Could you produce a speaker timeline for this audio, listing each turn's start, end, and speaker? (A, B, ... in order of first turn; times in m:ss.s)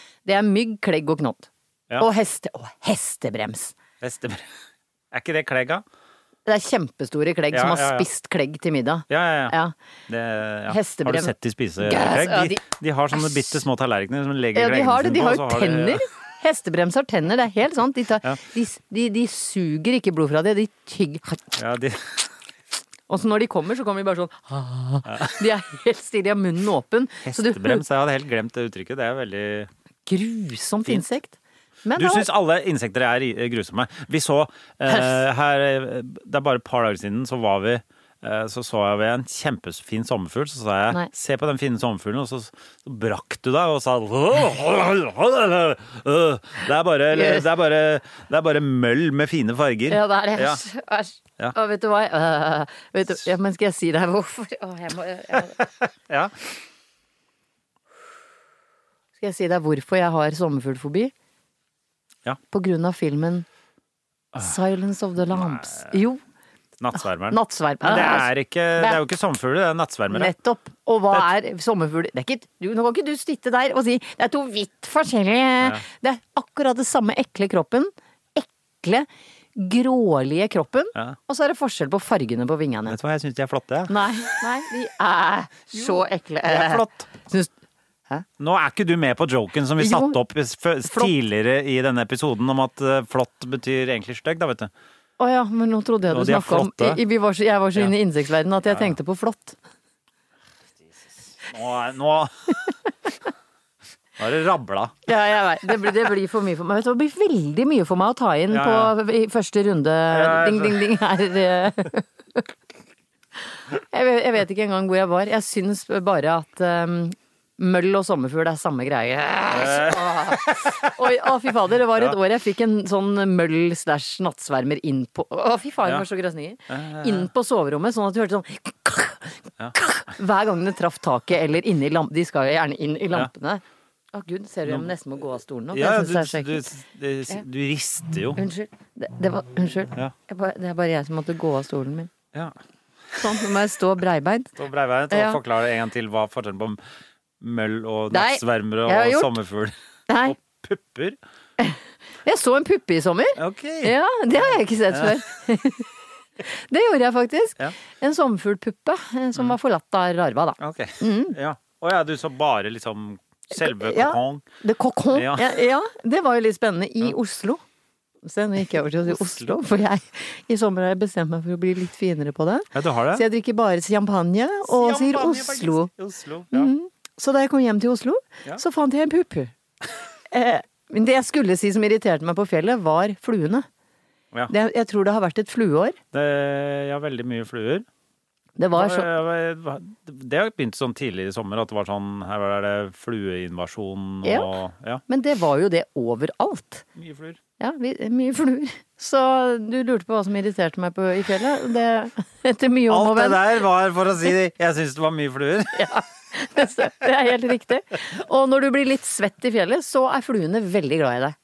0:00.2-0:03.7 A
0:04.0-0:04.5 B
0:05.1-0:05.8 B
0:06.5-0:09.7 A
0:07.5-0:08.1 B
0:09.1-0:09.6 B
0:10.1-0:16.0 B
0:10.7-0:12.6 A
0:14.6-0:21.4 A
0:21.6-0:22.3 B
0:23.1-0:27.8 A
0:25.1-0:25.4 B
0:27.2-0:29.7 B
0:30.1-0:32.3 A
0:32.0-0:50.6 B
0:34.9-0:35.2 A
0:47.1-0:47.4 A
0:49.9-0:55.6 A
0:55.6-0:56.3 B
0:59.2-1:01.1 A
1:02.5-1:03.5 A
1:04.4-1:06.2 A
1:05.3-1:06.0 B
1:06.8-1:10.3 B
1:07.3-1:09.0 A
1:10.1-1:23.0 A
1:22.9-1:24.1 B
1:23.9-1:27.5 A
1:25.7-1:27.1 B
1:28.4-1:34.7 B
1:29.8-1:30.2 A
1:35.2-1:39.6 A
1:36.1-1:37.0 B
1:38.7-1:38.9 B
1:41.3-1:42.5 B
1:44.2-1:45.0 B
1:45.1-1:52.5 A
1:48.5-1:48.9 B
1:50.1-1:50.8 B
1:53.7-2:13.6 A
1:59.5-2:01.2 B
2:06.7-2:07.3 B
2:14.1-2:16.7 A
2:14.7-2:14.9 B
2:15.7-2:18.4 B
2:18.4-2:22.1 A
2:23.2-2:24.5 A
2:24.6-2:26.8 B
2:25.1-2:25.4 A
2:27.4-2:31.2 B
2:28.1-2:29.3 A
2:30.1-2:30.4 A
2:31.6-2:35.9 A
2:33.4-2:34.0 B
2:34.9-2:35.2 B
2:36.4-2:41.4 A
2:40.6-2:44.4 B
2:43.6-2:47.6 A
2:45.1-2:45.5 B
2:48.2-2:55.9 A
2:52.7-2:53.2 B
2:54.7-2:56.7 B
2:56.5-2:59.5 A
3:00.3-3:03.7 A
3:04.5-3:06.0 A
3:06.1-3:07.9 B
3:08.6-3:09.1 A
3:08.7-3:15.0 B
3:14.2-3:14.5 A
3:15.1-3:16.8 A
3:17.0-3:17.4 B
3:17.6-3:23.4 A
3:22.9-3:25.9 B
3:25.8-3:31.4 A